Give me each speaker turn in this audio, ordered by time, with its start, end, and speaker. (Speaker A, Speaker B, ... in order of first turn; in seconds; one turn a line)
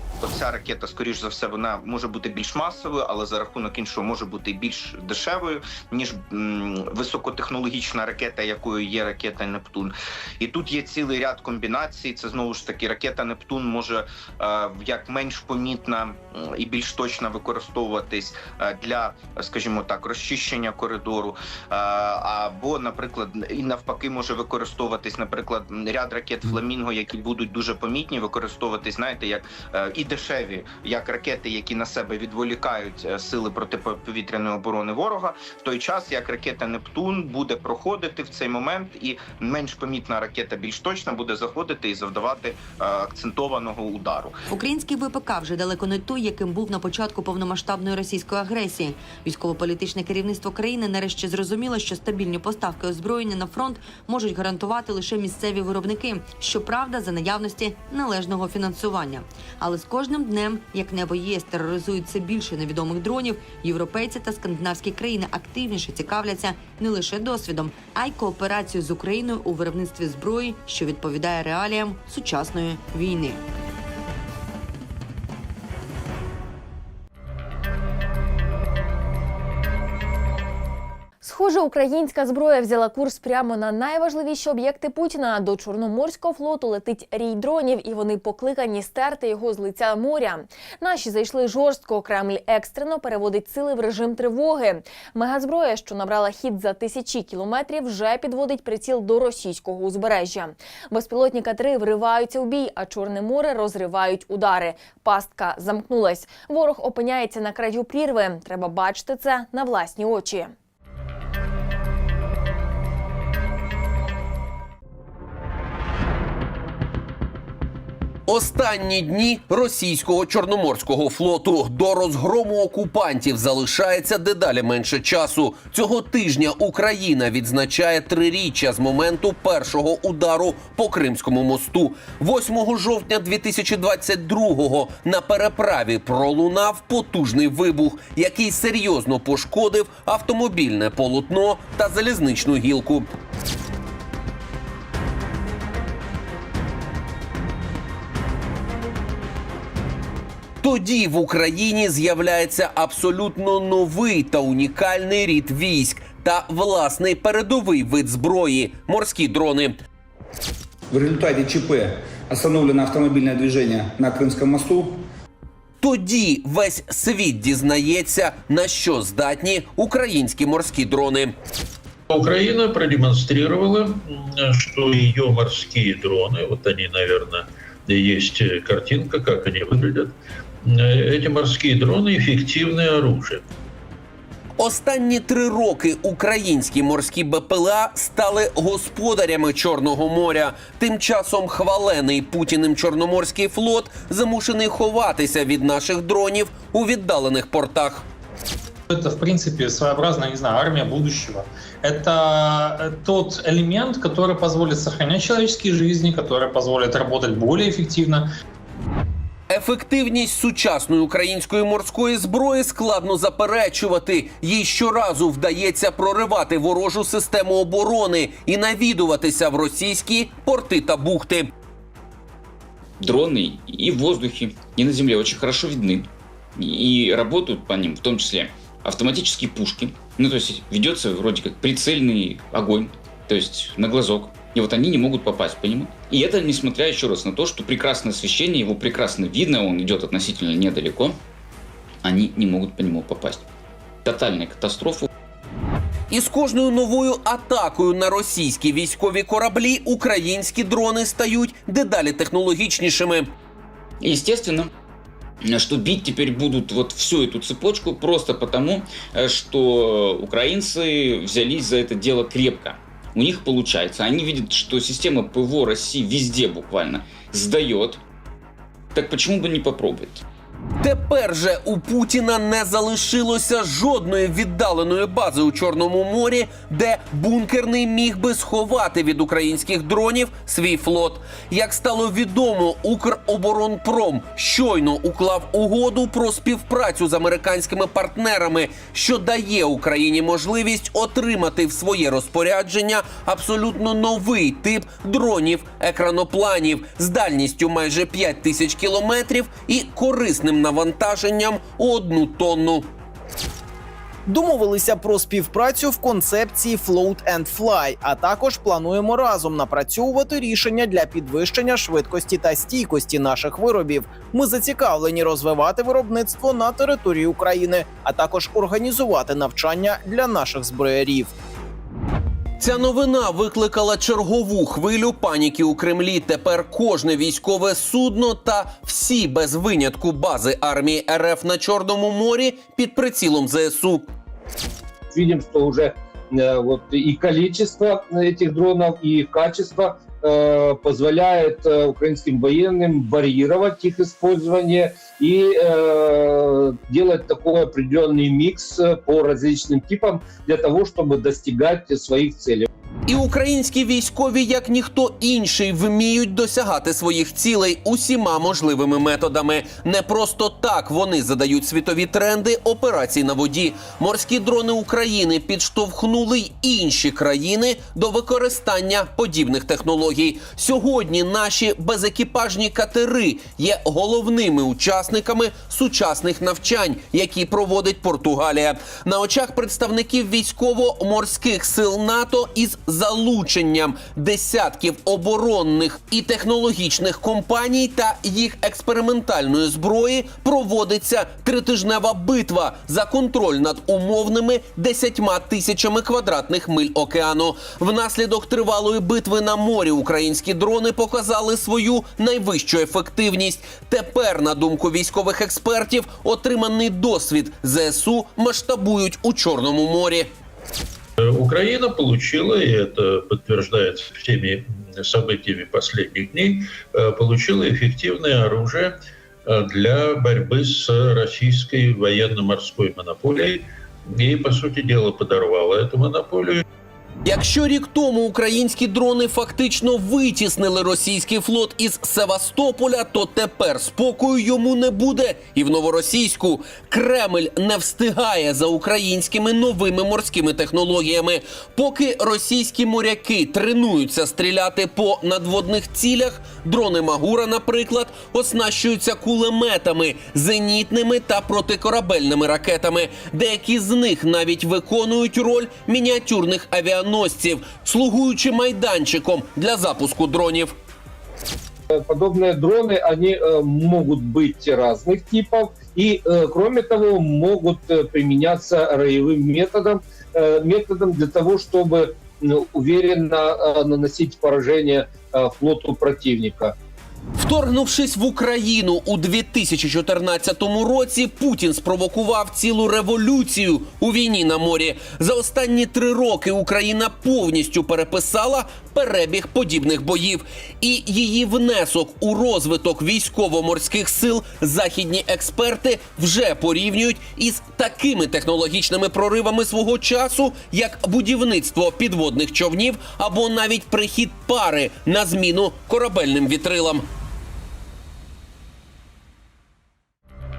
Speaker A: 0.2-44.4
Speaker B: 44.5-73.4
Speaker C: 81.2-110.5
Speaker D: 118.3-143.1
Speaker D: 150.6-159.8
Speaker E: 160.9-165.0
Speaker D: 165.8-171.4
Speaker F: 172.1-180.1
Speaker F: 180.7-183.4
Speaker D: 184.6-198.1
Speaker G: 198.9-208.3
Speaker D: 209.5-221.5
Speaker H: 223.0-226.1
Speaker H: 226.6-241.2
Speaker H: 242.0-243.4
Speaker H: 244.1-245.1
Speaker D: 246.1-253.3
Speaker H: 254.0-254.7
Speaker H: 255.5-268.0
Speaker H: 268.9-270.2
Speaker D: 270.8-302.9
Speaker I: 304.3-321.3
Speaker D: 322.6-334.1
Speaker J: 335.1-352.7
Speaker D: 353.1-410.3
Speaker F: 411.2-418.9
Speaker F: 419.5-426.6
Speaker D: 427.3-460.8
Speaker J: 461.9-476.7
Speaker D: 477.4-507.1